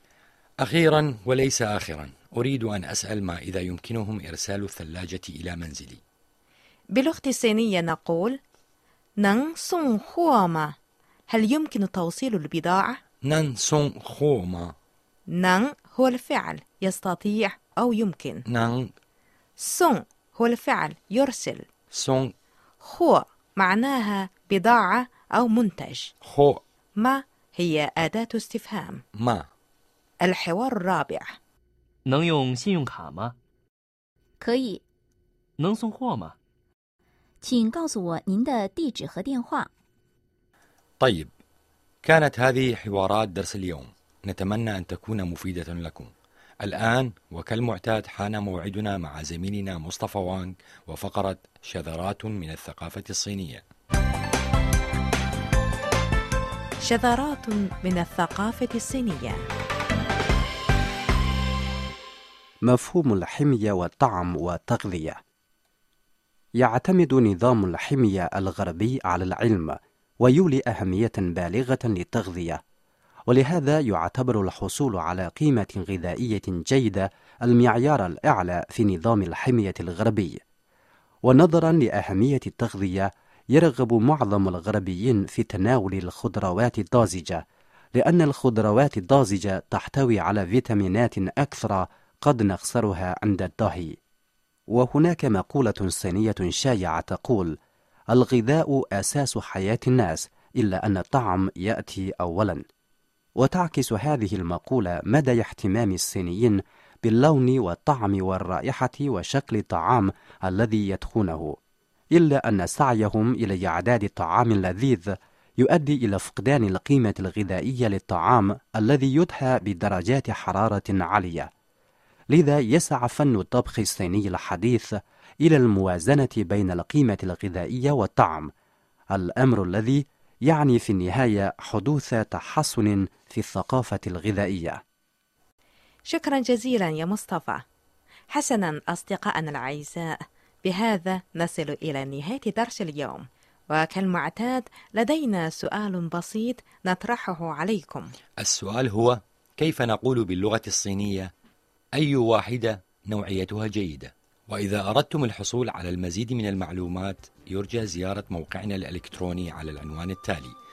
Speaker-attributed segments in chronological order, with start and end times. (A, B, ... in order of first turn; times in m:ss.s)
0:00.6-0:06.0 A
0:06.9-0:08.4 B
0:09.2-0:10.7 B
0:11.3-0:13.0 B
0:13.2-0:14.7 A
0:15.3-0:18.4 B
0:18.5-0:18.9 A
0:19.6-0:21.6 B
0:21.9-0:22.3 A
0:22.8-0:26.1 B
0:26.2-0:26.6 A
0:27.0-0:29.0 B
0:29.2-0:29.5 A
0:30.2-0:31.4 B
0:32.0-0:33.3 C
0:34.4-0:34.8 D
0:35.6-0:36.3 C
0:37.4-0:39.7 D
0:41.0-0:41.3 A
0:42.0-0:53.6 A
0:56.8-0:59.4 B
1:02.6-1:05.2 E
1:06.6-1:12.6 E
1:13.3-1:20.4 E
1:21.2-1:27.4 E
1:27.9-1:34.0 E
1:34.7-1:37.6 E
1:38.1-1:42.6 E
1:43.4-1:51.6 E
1:52.1-2:01.5 E
2:02.3-2:08.5 E
2:09.1-2:14.8 E
2:16.1-2:17.6 B
2:18.3-2:28.1 B
2:28.4-2:31.3 A
2:32.0-2:40.6 A